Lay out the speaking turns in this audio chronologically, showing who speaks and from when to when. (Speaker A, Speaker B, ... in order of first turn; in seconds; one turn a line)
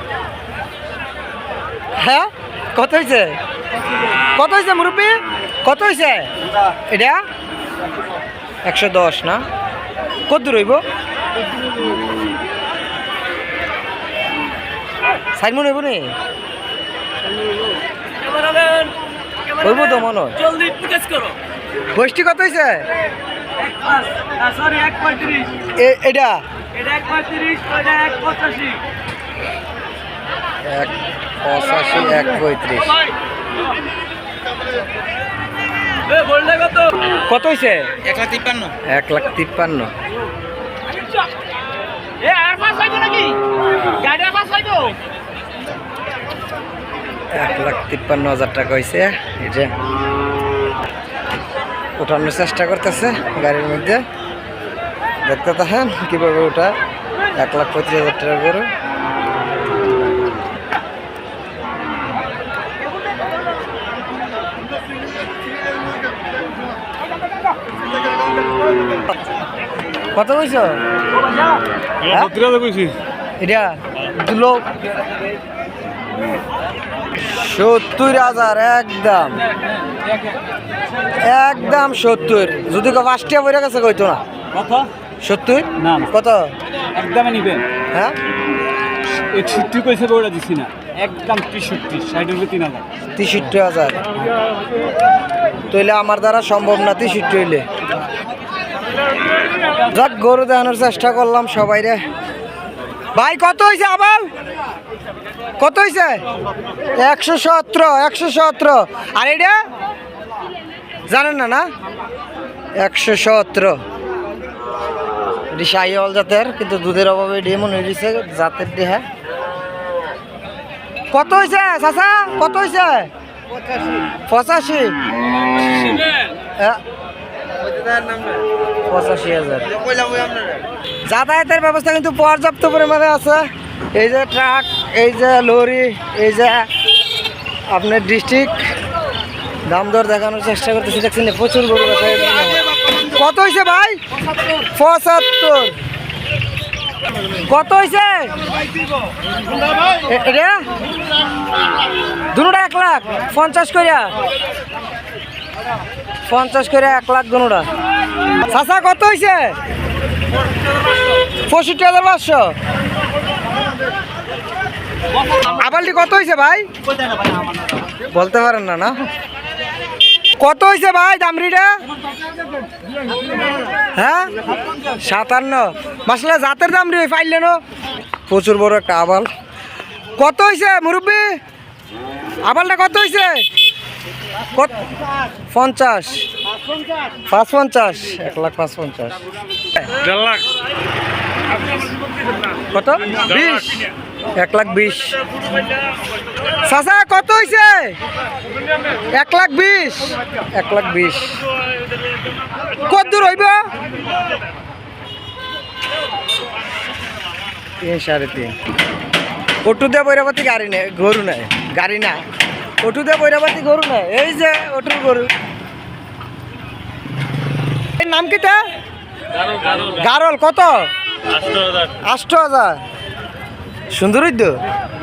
Speaker A: 2.0-3.4
Speaker A: 4.3-6.3
Speaker A: 6.9-7.2
Speaker A: 8.7-9.4
Speaker A: 10.3-10.8
Speaker A: 15.4-16.1
Speaker B: 18.3-18.9
Speaker A: 19.6-20.4
Speaker B: 20.4-21.4
Speaker A: 21.9-22.9
Speaker B: 23.6-25.5
Speaker A: 25.7-26.4
Speaker B: 26.8-28.8
Speaker A: 30.7-33.0
Speaker B: 36.1-37.0
Speaker A: 37.3-38.1
Speaker B: 38.1-38.7
Speaker A: 38.8-39.9
Speaker B: 42.2-43.4
Speaker B: 44.0-44.9
Speaker A: 47.3-49.7
Speaker A: 52.0-54.0
Speaker A: 55.2-56.8
Speaker A: 57.4-58.7
Speaker A: 70.2-70.8
Speaker A: 72.0-72.5
Speaker B: 72.5-72.9
Speaker A: 73.4-74.7
Speaker A: 77.3-79.4
Speaker A: 81.2-84.2
Speaker B: 84.5-84.9
Speaker A: 85.2-86.5
Speaker B: 85.8-86.1
Speaker B: 86.9-87.7
Speaker A: 87.9-88.2
Speaker B: 89.1-92.9
Speaker A: 93.2-94.0
Speaker A: 95.7-97.7
Speaker A: 99.9-102.0
Speaker A: 103.1-104.3
Speaker A: 105.6-106.2
Speaker A: 107.0-109.6
Speaker A: 111.1-111.7
Speaker A: 112.8-113.8
Speaker A: 115.5-119.0
Speaker A: 121.1-123.1
Speaker A: 124.3-125.0
Speaker A: 128.9-129.8
Speaker A: 131.1-136.7
Speaker A: 137.7-138.6
Speaker A: 139.7-144.0
Speaker A: 144.7-145.7
Speaker A: 147.5-148.4
Speaker A: 150.1-150.6
Speaker A: 152.3-154.1
Speaker A: 156.3-157.7
Speaker A: 158.4-159.6
Speaker A: 161.5-162.6
Speaker A: 165.5-166.7
Speaker A: 168.1-169.0
Speaker A: 170.4-171.8
Speaker A: 173.9-174.3
Speaker A: 174.9-177.6
Speaker A: 178.3-179.3
Speaker A: 180.2-181.4
Speaker A: 182.5-183.5
Speaker A: 184.5-184.8
Speaker A: 185.5-186.3
Speaker A: 187.3-190.4
Speaker A: 192.7-195.2
Speaker A: 196.7-198.0
Speaker A: 199.1-201.4
Speaker A: 202.9-203.7
Speaker A: 207.8-208.5
Speaker A: 209.6-212.2
Speaker A: 212.8-215.3
Speaker A: 218.0-218.6
Speaker A: 219.7-220.9
Speaker A: 222.1-222.8
Speaker A: 223.9-224.6